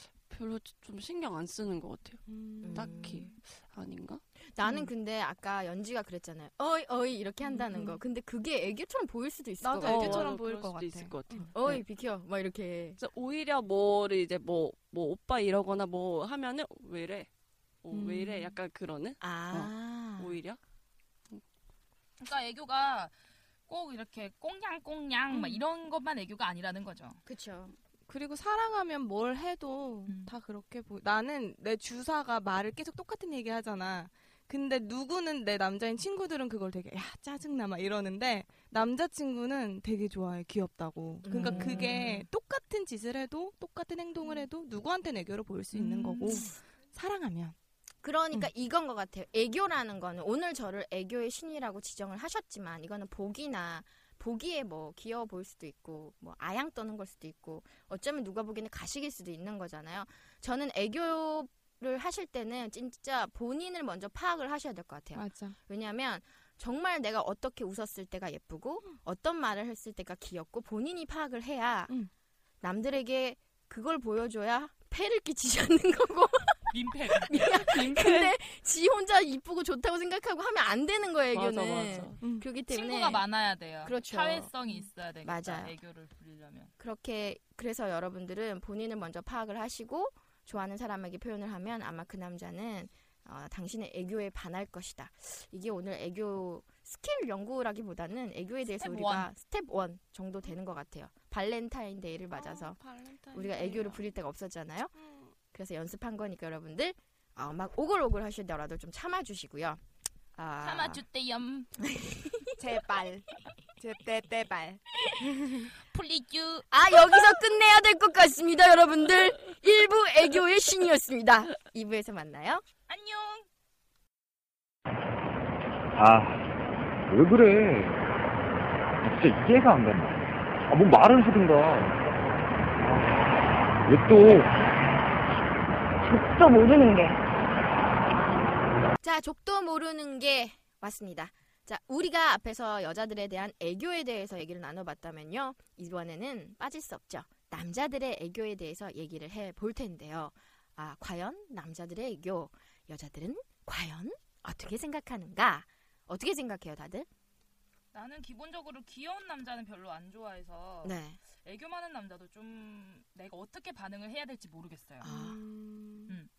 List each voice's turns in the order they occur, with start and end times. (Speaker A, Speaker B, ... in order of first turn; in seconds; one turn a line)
Speaker A: 0.3-4.2
Speaker B: 2.3-3.3
Speaker C: 2.6-3.3
Speaker C: 4.5-10.3
Speaker B: 7.5-8.0
Speaker B: 9.6-11.5
Speaker A: 9.8-11.8
Speaker C: 11.5-13.0
Speaker A: 13.0-17.3
Speaker A: 17.8-20.6
Speaker B: 17.9-18.6
Speaker C: 19.2-20.4
Speaker D: 22.2-23.1
Speaker D: 23.7-27.2
Speaker B: 25.3-25.6
Speaker C: 27.3-27.7
Speaker B: 28.1-47.6
Speaker D: 30.1-30.3
Speaker C: 41.2-42.3
Speaker D: 41.4-41.9
Speaker D: 45.7-46.4
Speaker C: 46.2-46.5
Speaker C: 48.0-71.9
Speaker B: 65.2-65.6
Speaker C: 72.6-83.2
Speaker D: 76.7-77.8
Speaker A: 77.7-78.3
Speaker A: 81.3-82.2
Speaker B: 82.2-82.5
Speaker D: 82.7-86.7
Speaker C: 83.8-84.5
Speaker C: 85.2-85.7
Speaker C: 86.8-102.8
Speaker D: 98.8-99.3
Speaker A: 102.4-104.0
Speaker B: 103.3-103.7
Speaker C: 103.3-104.9
Speaker B: 105.0-105.3
Speaker C: 105.5-109.8
Speaker C: 110.3-111.0
Speaker D: 110.6-111.7
Speaker C: 111.8-112.6
Speaker B: 112.6-115.7
Speaker D: 115.9-116.7
Speaker C: 116.7-122.6
Speaker D: 122.9-123.5
Speaker E: 126.0-126.5
Speaker E: 127.1-128.0
Speaker E: 129.0-132.0
Speaker E: 132.8-133.1
Speaker E: 133.9-134.5
Speaker E: 136.1-137.1
Speaker C: 136.7-137.1
Speaker C: 139.0-157.1
Speaker D: 157.9-165.1
Speaker C: 160.8-161.2
Speaker C: 165.0-165.4
Speaker B: 165.0-166.2